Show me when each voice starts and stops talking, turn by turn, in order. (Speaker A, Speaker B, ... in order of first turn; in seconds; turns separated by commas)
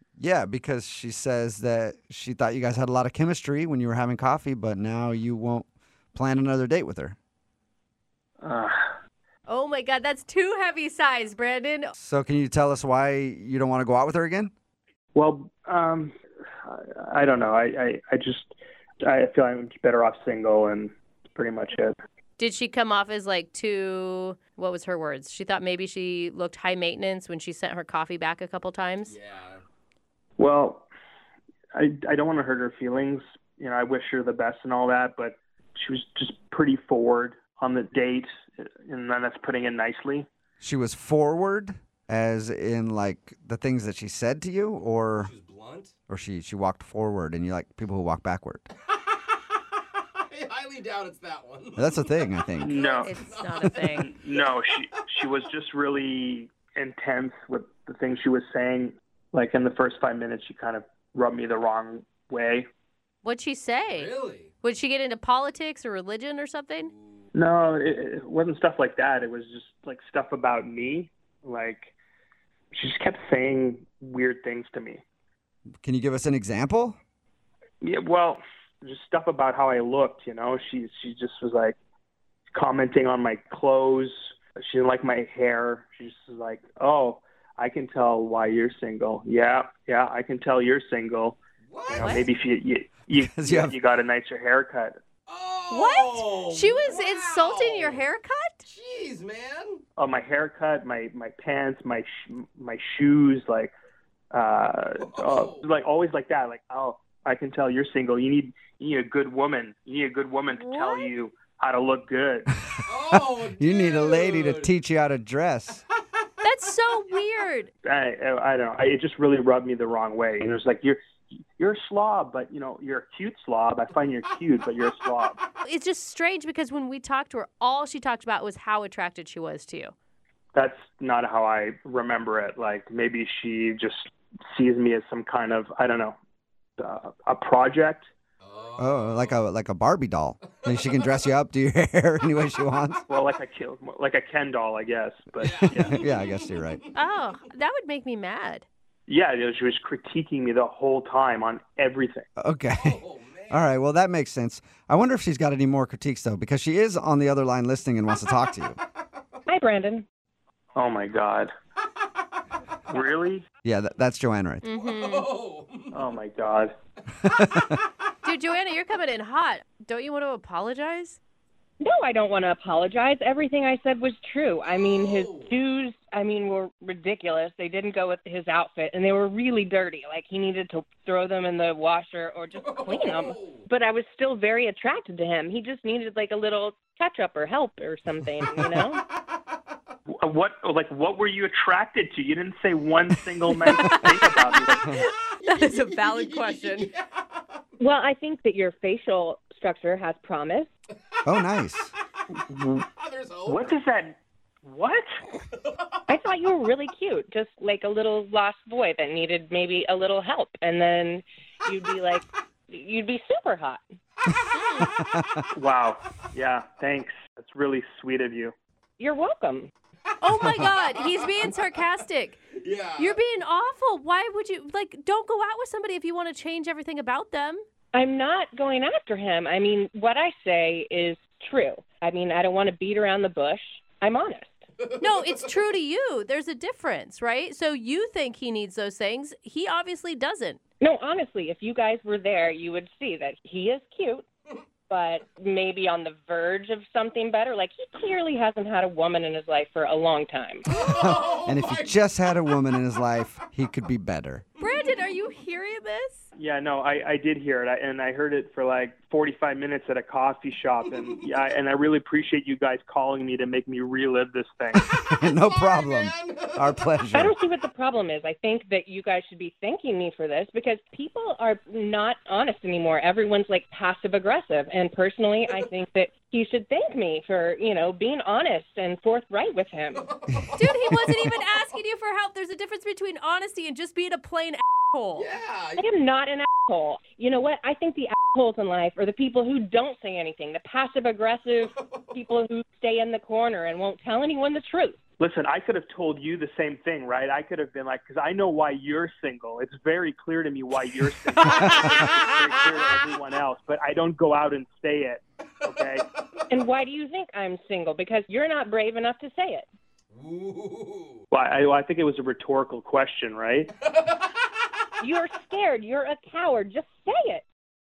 Speaker A: 0.2-7.2, Speaker B: 8.4-8.9, Speaker C: 9.5-11.9, Speaker A: 12.0-14.5, Speaker B: 15.1-16.1, Speaker B: 16.6-21.9, Speaker C: 22.4-29.1, Speaker D: 29.0-29.6, Speaker B: 30.4-30.9, Speaker B: 31.7-40.3, Speaker A: 40.6-45.3, Speaker D: 45.2-45.9, Speaker A: 46.1-48.6, Speaker D: 50.2-54.6, Speaker A: 51.8-52.7, Speaker B: 52.6-53.1, Speaker C: 52.9-54.1, Speaker B: 54.0-62.6, Speaker C: 63.2-66.9, Speaker D: 63.9-64.5, Speaker D: 66.9-67.2, Speaker B: 67.3-71.9, Speaker B: 72.7-75.0, Speaker A: 75.8-77.0, Speaker B: 77.8-81.8, Speaker B: 82.5-95.0, Speaker D: 91.7-92.3, Speaker C: 92.0-92.2, Speaker A: 93.2-93.8, Speaker D: 95.3-98.0, Speaker C: 95.7-98.7, Speaker D: 98.6-99.8, Speaker B: 100.0-103.7, Speaker B: 104.3-112.5, Speaker D: 105.0-105.6, Speaker C: 110.5-111.1, Speaker D: 112.8-114.7, Speaker A: 113.1-115.8, Speaker C: 116.4-117.7, Speaker B: 117.8-125.4, Speaker C: 125.6-129.9, Speaker B: 130.5-136.1, Speaker B: 136.8-138.1, Speaker D: 138.4-139.3, Speaker A: 138.8-143.0, Speaker B: 143.1-146.0, Speaker D: 145.4-146.9, Speaker A: 145.5-146.8, Speaker C: 146.9-148.6, Speaker B: 149.1-152.2, Speaker A: 152.4-158.8, Speaker D: 152.8-153.6, Speaker E: 159.5-160.0, Speaker B: 160.8-161.5, Speaker B: 162.9-163.4, Speaker A: 163.6-164.6, Speaker C: 164.6-165.3, Speaker D: 164.7-166.1, Speaker B: 165.9-166.7, Speaker A: 167.3-167.6, Speaker C: 168.2-171.2, Speaker E: 171.8-189.0, Speaker D: 174.6-175.5, Speaker D: 182.6-183.6, Speaker B: 190.2-195.0, Speaker C: 193.6-196.9, Speaker D: 195.1-196.9, Speaker E: 197.8-200.7, Speaker A: 201.2-201.9, Speaker B: 202.5-202.8, Speaker D: 202.9-203.7, Speaker B: 203.4-205.1, Speaker E: 206.1-213.8, Speaker C: 214.5-214.9, Speaker A: 214.8-215.4, Speaker B: 215.5-218.5, Speaker E: 219.0-219.7, Speaker C: 220.2-222.4, Speaker D: 220.6-221.3, Speaker D: 222.5-223.2, Speaker C: 223.0-227.6, Speaker E: 227.9-234.6, Speaker D: 234.8-235.5, Speaker C: 235.0-240.6, Speaker E: 240.8-244.2, Speaker E: 244.9-250.7, Speaker A: 250.7-254.4, Speaker D: 250.7-251.9, Speaker C: 254.6-256.2, Speaker B: 256.4-264.8, Speaker A: 264.8-267.3, Speaker D: 265.2-266.8, Speaker E: 267.1-280.1, Speaker D: 280.0-280.9, Speaker C: 280.5-285.3, Speaker D: 285.1-285.9, Speaker E: 285.8-295.0, Speaker B: 295.2-306.0, Speaker D: 301.5-301.9, Speaker E: 306.5-309.6, Speaker D: 310.1-311.2, Speaker B: 311.3-313.7, Speaker D: 313.9-314.2, Speaker E: 315.0-317.4